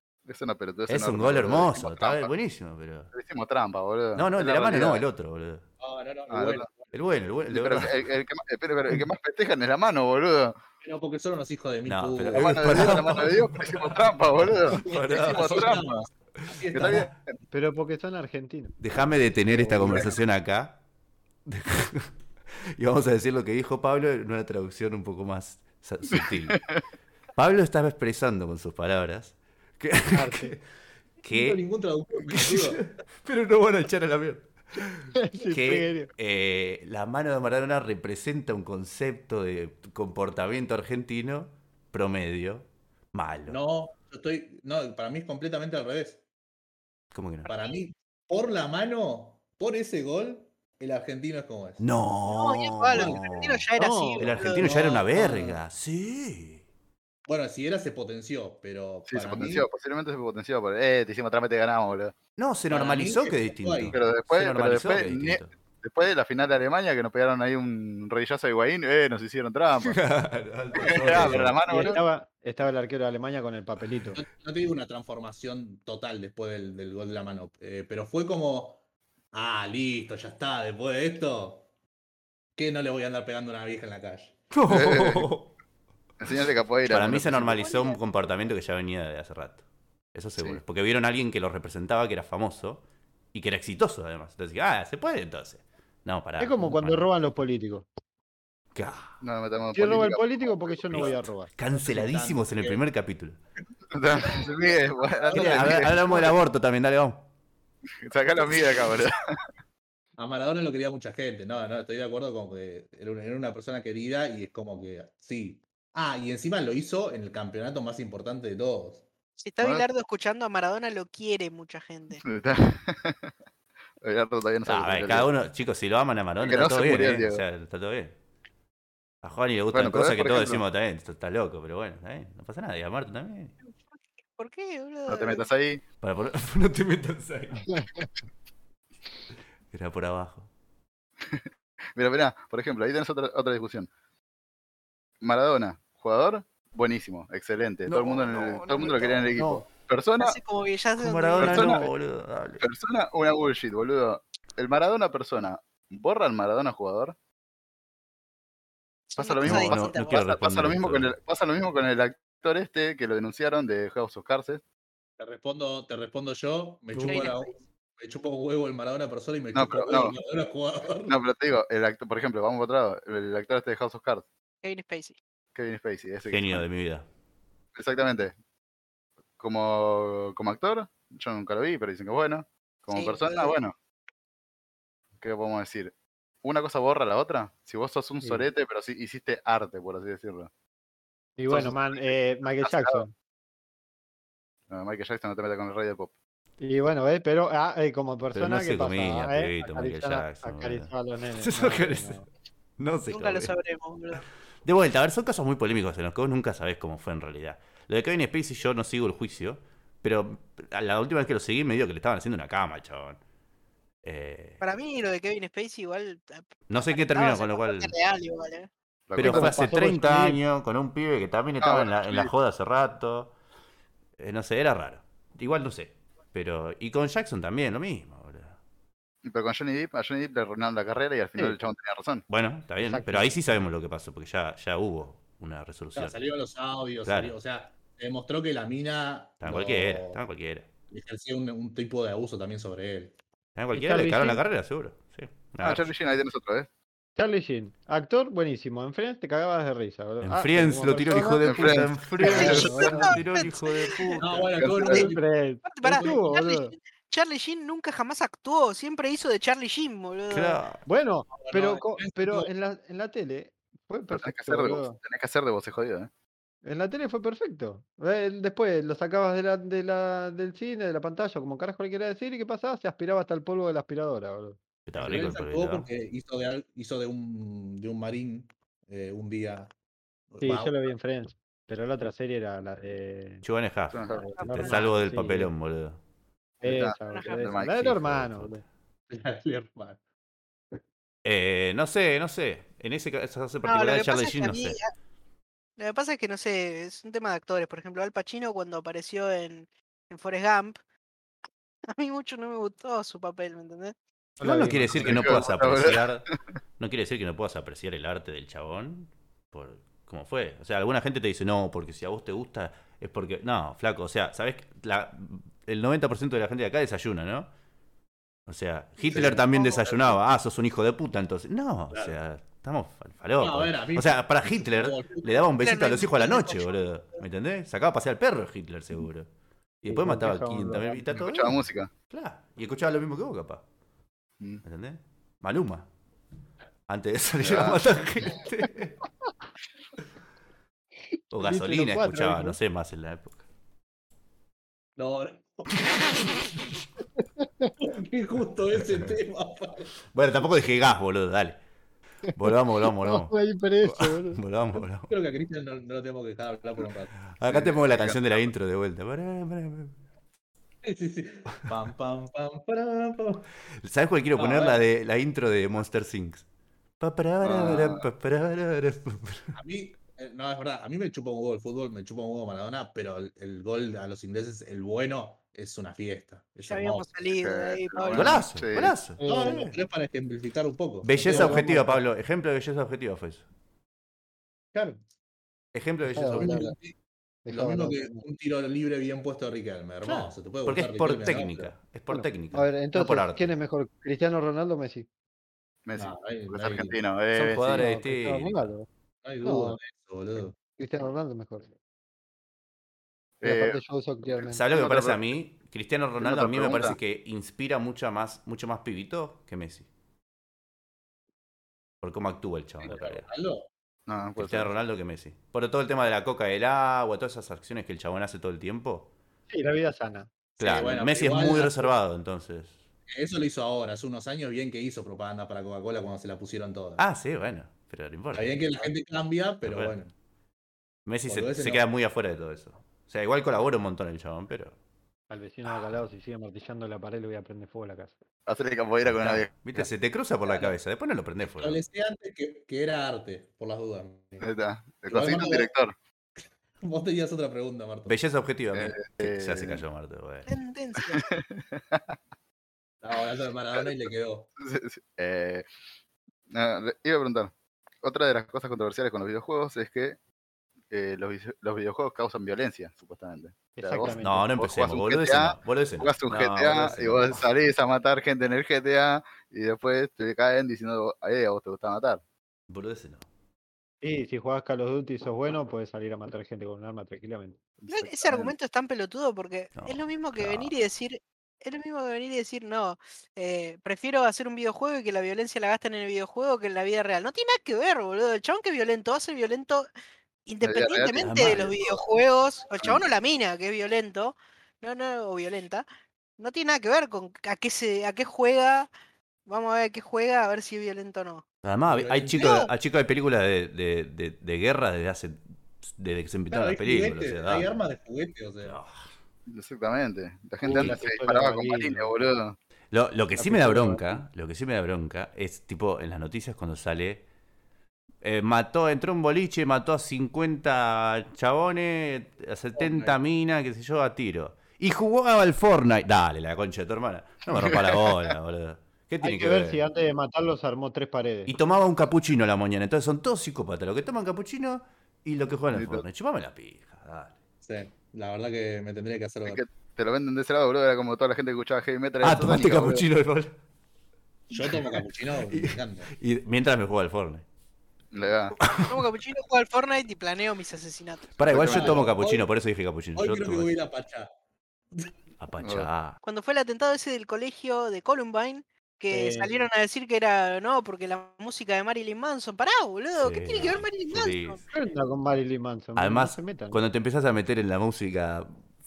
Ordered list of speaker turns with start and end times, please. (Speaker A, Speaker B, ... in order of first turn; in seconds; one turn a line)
Speaker A: 0.3-2.3
Speaker B: 0.9-3.1
Speaker A: 3.1-5.1
Speaker B: 4.2-5.7
Speaker C: 5.8-7.1
Speaker A: 6.3-6.7
Speaker B: 6.9-8.0
Speaker A: 7.5-10.6
Speaker C: 10.8-13.2
Speaker B: 11.9-15.8
Speaker A: 12.3-16.1
Speaker C: 14.7-17.1
Speaker B: 16.4-17.0
Speaker A: 16.7-17.2
Speaker D: 17.5-18.8
Speaker B: 18.8-20.8
Speaker D: 19.5-20.2
Speaker B: 21.5-22.1
Speaker B: 22.8-26.6
Speaker B: 27.4-30.6
Speaker D: 30.1-30.6
Speaker B: 31.2-31.6
Speaker C: 31.3-32.9
Speaker B: 32.2-43.6
Speaker D: 35.1-36.1
Speaker C: 43.5-46.2
Speaker B: 47.1-47.5
Speaker C: 47.5-51.9
Speaker B: 51.8-53.7
Speaker E: 52.2-54.7
Speaker C: 52.9-53.2
Speaker D: 53.8-54.3
Speaker B: 54.2-56.6
Speaker C: 54.5-55.6
Speaker C: 57.3-59.7
Speaker A: 59.1-62.1
Speaker B: 62.4-65.5
Speaker C: 62.7-64.0
Speaker A: 63.9-70.0
Speaker B: 69.8-71.6
Speaker C: 70.7-72.0
Speaker A: 70.9-72.0
Speaker D: 71.7-74.2
Speaker C: 74.2-78.8
Speaker C: 79.3-81.7
Speaker C: 82.6-84.4
Speaker B: 84.5-85.5
Speaker A: 84.7-85.3
Speaker A: 86.2-87.7
Speaker B: 86.9-89.6
Speaker E: 87.5-88.0
Speaker B: 90.1-92.8
Speaker B: 93.3-97.1
Speaker D: 96.4-97.9
Speaker B: 98.8-99.2
Speaker A: 99.2-101.1
Speaker D: 99.7-101.5
Speaker B: 100.9-103.4
Speaker C: 101.7-102.8
Speaker A: 103.9-106.3
Speaker C: 105.2-106.4
Speaker B: 105.3-107.3
Speaker A: 108.0-109.2
Speaker C: 110.2-119.0
Speaker E: 119.4-122.2
Speaker A: 122.2-123.3
Speaker A: 124.0-125.3
Speaker B: 124.7-128.2
Speaker A: 126.4-127.4
Speaker B: 129.2-133.6
Speaker A: 129.7-130.6
Speaker E: 134.3-135.4
Speaker A: 135.1-135.8
Speaker B: 136.0-137.7
Speaker D: 137.7-138.1
Speaker B: 139.7-140.5
Speaker A: 141.2-141.4
Speaker A: 142.0-143.9
Speaker A: 145.2-150.4
Speaker B: 147.9-149.4
Speaker D: 149.4-149.7
Speaker E: 150.2-151.8
Speaker B: 151.0-152.7
Speaker A: 151.4-151.8
Speaker A: 152.6-157.2
Speaker E: 159.1-160.3
Speaker A: 159.2-164.6
Speaker B: 159.4-161.1
Speaker C: 165.2-171.2
Speaker B: 166.9-167.3
Speaker E: 167.0-167.5
Speaker A: 169.5-170.2
Speaker A: 171.1-174.3
Speaker E: 174.6-175.2
Speaker A: 175.6-176.6
Speaker B: 176.3-177.1
Speaker A: 177.8-178.3
Speaker A: 179.4-183.7
Speaker E: 182.9-183.5
Speaker A: 185.2-185.9
Speaker A: 186.4-190.5
Speaker D: 191.4-193.1
Speaker A: 191.5-193.1
Speaker A: 194.7-196.1
Speaker D: 196.6-202.3
Speaker B: 198.3-202.2
Speaker B: 202.8-203.6
Speaker E: 203.1-204.2
Speaker B: 204.7-213.2
Speaker B: 214.0-214.6
Speaker E: 214.6-218.7
Speaker B: 216.7-217.9
Speaker A: 219.1-219.7
Speaker B: 219.2-223.3
Speaker D: 219.2-220.4
Speaker A: 221.6-222.3
Speaker B: 224.2-228.6
Speaker A: 229.2-232.2
Speaker B: 232.3-236.2
Speaker D: 232.8-233.4
Speaker C: 235.9-240.2
Speaker B: 237.0-237.3
Speaker B: 239.4-240.7
Speaker C: 240.9-243.2
Speaker B: 243.6-245.9
Speaker D: 243.7-244.4
Speaker A: 245.6-246.7
Speaker D: 247.2-253.2
Speaker B: 250.2-254.6
Speaker A: 251.4-253.1
Speaker E: 252.3-254.2
Speaker C: 252.3-252.6
Speaker C: 254.2-255.2
Speaker A: 254.6-255.1
Speaker D: 254.8-256.7
Speaker E: 255.7-260.6
Speaker C: 255.9-256.2
Speaker B: 260.3-260.8
Speaker D: 260.9-265.0
Speaker C: 261.4-262.5
Speaker A: 264.1-266.1
Speaker D: 266.6-274.6
Speaker B: 274.9-275.9
Speaker C: 275.0-279.7
Speaker C: 280.3-280.9
Speaker D: 280.4-283.4
Speaker B: 283.4-286.0
Speaker A: 283.9-284.2
Speaker D: 284.1-285.5
Speaker E: 284.3-284.8
Speaker A: 286.6-288.4
Speaker D: 286.6-288.6
Speaker E: 287.1-287.5
Speaker C: 289.1-290.0
Speaker B: 291.2-294.8
Speaker E: 293.6-294.9
Speaker E: 295.8-300.8
Speaker E: 301.9-303.9
Speaker D: 304.4-305.4
Speaker B: 304.4-317.5
Speaker A: 304.9-306.1
Speaker B: 318.5-329.3
Speaker C: 319.1-319.7
Speaker E: 319.6-320.0
Speaker C: 323.4-325.5
Speaker E: 325.6-327.2
Speaker B: 329.8-333.6
Speaker D: 329.9-331.1
Speaker A: 331.1-331.9
Speaker B: 334.6-335.9
Speaker B: 336.9-339.0
Speaker A: 337.4-337.8
Speaker B: 341.3-343.4
Speaker D: 341.4-342.6
Speaker C: 345.0-346.5
Speaker D: 347.2-347.7
Speaker C: 347.8-349.9
Speaker B: 348.9-349.1
Speaker B: 350.1-351.6
Speaker B: 352.4-355.1
Speaker D: 353.0-354.4
Speaker C: 355.1-357.1
Speaker B: 357.3-360.0
Speaker A: 357.5-358.5
Speaker C: 360.8-363.5
Speaker B: 363.8-366.4
Speaker C: 364.4-364.8
Speaker B: 367.0-369.6
Speaker A: 367.4-368.1
Speaker C: 369.6-377.1
Speaker E: 376.7-378.4
Speaker A: 377.3-379.0
Speaker B: 378.1-379.7
Speaker D: 379.2-379.7
Speaker C: 379.2-381.7
Speaker B: 381.0-383.4
Speaker D: 381.2-382.0
Speaker C: 384.7-385.0
Speaker B: 385.7-386.7
Speaker D: 386.1-386.7
Speaker C: 386.3-386.9
Speaker D: 387.4-388.2
Speaker C: 387.5-391.7
Speaker B: 390.0-393.5
Speaker D: 392.1-395.1
Speaker A: 395.9-397.9
Speaker C: 396.0-397.0
Speaker B: 397.3-398.7
Speaker D: 397.7-398.9
Speaker C: 399.2-400.6
Speaker D: 399.4-399.8
Speaker D: 400.8-401.7
Speaker A: 403.4-403.8
Speaker D: 403.4-404.6
Speaker B: 404.5-409.9
Speaker A: 404.7-405.2
Speaker A: 406.2-407.0
Speaker B: 412.0-413.3
Speaker C: 412.8-413.7
Speaker A: 414.1-414.7
Speaker B: 414.4-419.1
Speaker D: 419.5-420.3
Speaker C: 420.6-421.9
Speaker B: 420.6-422.8
Speaker C: 423.1-427.0
Speaker B: 427.0-428.7
Speaker C: 428.3-430.1
Speaker B: 429.6-430.0
Speaker B: 431.1-434.8
Speaker C: 431.3-431.8
Speaker D: 435.3-438.1
Speaker A: 438.5-439.7
Speaker B: 439.1-441.8
Speaker C: 441.4-444.5
Speaker A: 444.4-445.9
Speaker C: 445.1-445.7
Speaker C: 446.8-448.2
Speaker B: 448.1-450.5
Speaker A: 448.7-449.8
Speaker E: 450.5-451.3
Speaker A: 451.1-452.2
Speaker C: 453.0-454.5
Speaker A: 454.6-455.7
Speaker A: 456.5-460.2
Speaker A: 460.9-472.2
Speaker D: 463.8-464.5
Speaker B: 464.0-467.4
Speaker B: 472.7-473.3
Speaker D: 474.0-477.6
Speaker A: 477.8-478.5
Speaker E: 477.9-489.9
Speaker B: 479.8-480.7
Speaker E: 490.5-495.9
Speaker A: 490.6-491.7
Speaker B: 491.2-491.6
Speaker E: 496.4-498.9
Speaker E: 499.5-501.4
Speaker B: 501.6-507.8
Speaker C: 501.9-502.7
Speaker E: 502.4-502.7
Speaker C: 506.5-508.8
Speaker B: 508.6-509.1
Speaker A: 509.5-512.6
Speaker D: 510.6-512.1
Speaker B: 512.9-517.2
Speaker D: 513.4-514.2
Speaker B: 518.2-529.8
Speaker C: 522.8-523.2
Speaker A: 527.5-528.3
Speaker D: 529.2-531.5
Speaker B: 531.5-537.4
Speaker A: 535.7-536.0
Speaker C: 537.6-539.6
Speaker A: 539.5-543.1
Speaker B: 542.2-543.5
Speaker C: 544.5-546.1
Speaker B: 544.6-547.4
Speaker A: 548.1-548.6
Speaker B: 548.6-549.1
Speaker E: 548.9-551.4
Speaker B: 551.4-553.7
Speaker C: 551.5-552.5
Speaker A: 551.5-552.0
Speaker C: 553.2-554.3
Speaker B: 555.4-556.2
Speaker A: 555.6-555.9
Speaker E: 556.2-564.6
Speaker D: 559.1-559.7
Speaker B: 563.2-564.6
Speaker D: 564.7-566.8
Speaker B: 566.0-568.5